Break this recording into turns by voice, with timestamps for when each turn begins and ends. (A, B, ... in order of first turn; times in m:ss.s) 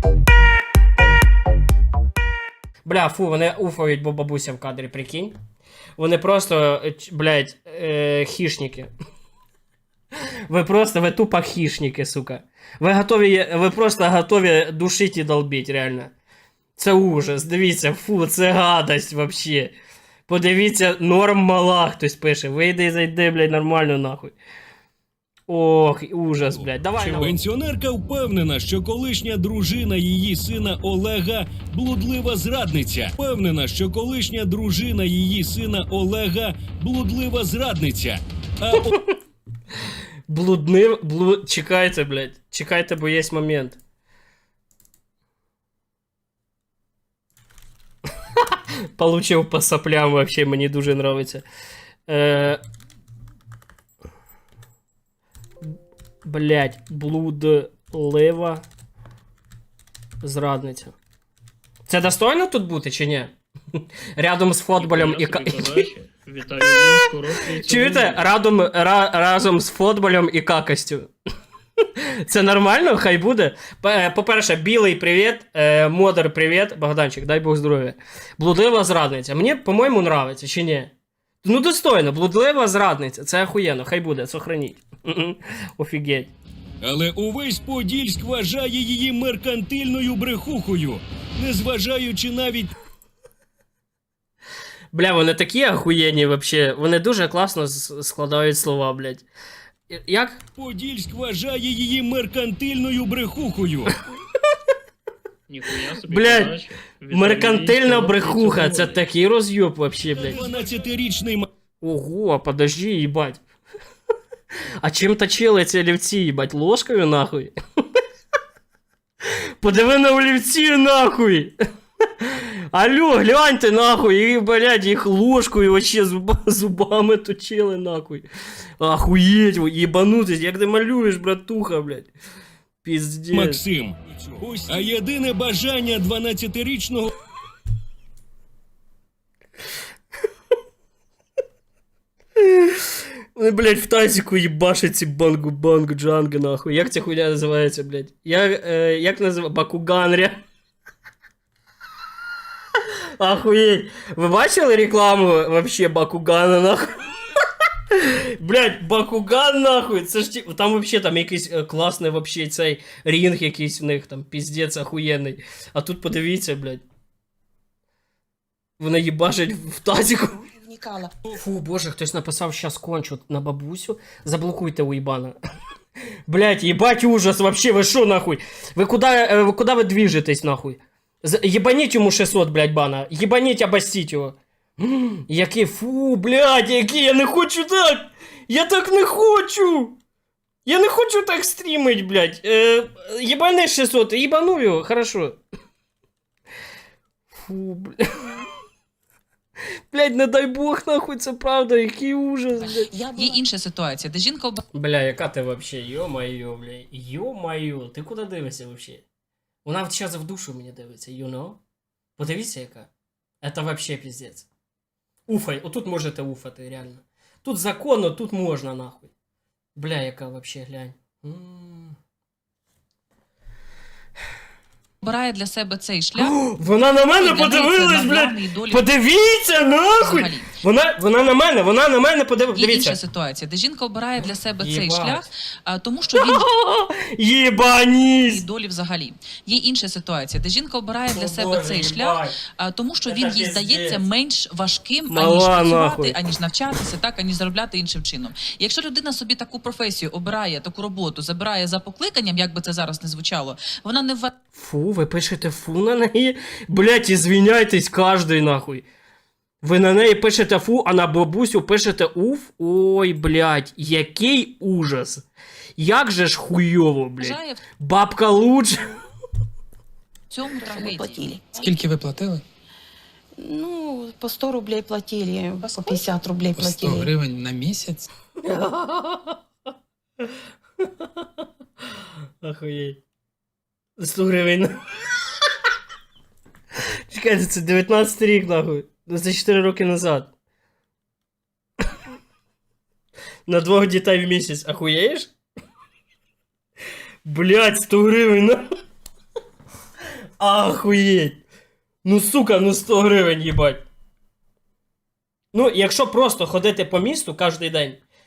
0:02.8-0:05.4 A
0:06.0-0:08.9 A
0:10.5-0:16.1 A
0:16.8-0:19.7 A
0:20.3-0:24.4 A
0:25.5-0:27.4 A
0:26.5-0:38.9 B
0:38.8-0:39.1 A
0:40.3-0:43.8 A
0:49.0-0:51.4 A
0:52.1-0:52.6 A
0:56.2-0:58.6 A
1:00.2-1:00.9 A
1:01.9-1:05.9 A
1:04.8-1:08.3 C
1:07.6-1:11.1 A
1:12.3-1:20.9 A
1:21.4-1:26.3 A
1:26.8-1:32.7 B
1:34.9-1:39.2 A
1:39.9-1:40.4 A
1:40.6-1:43.9 B
1:45.5-1:49.1 C
1:46.0-1:50.4 A
1:50.1-1:51.5 B
1:51.8-1:53.4 A
1:54.8-1:57.5 A
1:59.6-2:01.5 A
2:02.2-2:08.3 A
2:08.8-2:12.1 A
2:12.8-2:13.6 A
2:13.3-2:17.1 B
2:22.4-2:22.7 A
2:23.4-2:30.4 A
2:33.2-2:37.0 A
2:38.0-2:46.8 A
2:48.8-2:50.4 A
2:50.5-2:51.1 D
2:51.3-2:55.4 A
2:56.3-3:10.0 A
3:10.6-3:15.4 A
3:17.3-3:18.0 A
3:19.9-3:22.9 A
3:22.6-3:24.6 E
3:22.8-3:23.4 D
3:24.7-3:29.0 A
3:29.6-3:31.6 A
3:32.2-3:32.9 A
3:33.4-3:34.5 A
3:35.3-3:39.1 A
3:39.8-3:42.0 A
3:45.0-3:46.4 E
3:46.2-3:53.0 A
3:47.1-3:48.9 E
3:50.0-3:50.5 E
3:52.5-3:56.4 E
3:54.6-3:55.3 A
3:56.2-3:58.4 A
3:58.2-4:14.3 E
4:01.1-4:02.3 A
4:03.0-4:04.0 A
4:05.1-4:06.2 A
4:14.6-4:18.8 A
4:19.6-4:25.2 A
4:25.8-4:28.8 A
4:27.2-4:27.6 E
4:30.3-4:31.4 E
4:30.7-4:31.4 D
4:31.6-4:32.4 F
4:33.4-4:37.1 D
4:36.6-4:38.1 F
4:38.4-4:39.4 A
4:42.4-4:43.0 A
4:44.0-4:44.8 A
4:47.1-4:50.3 A
4:53.5-4:55.3 A
4:57.2-4:58.6 A
5:00.4-5:01.4 A
5:02.0-5:03.8 A
5:05.5-5:08.0 A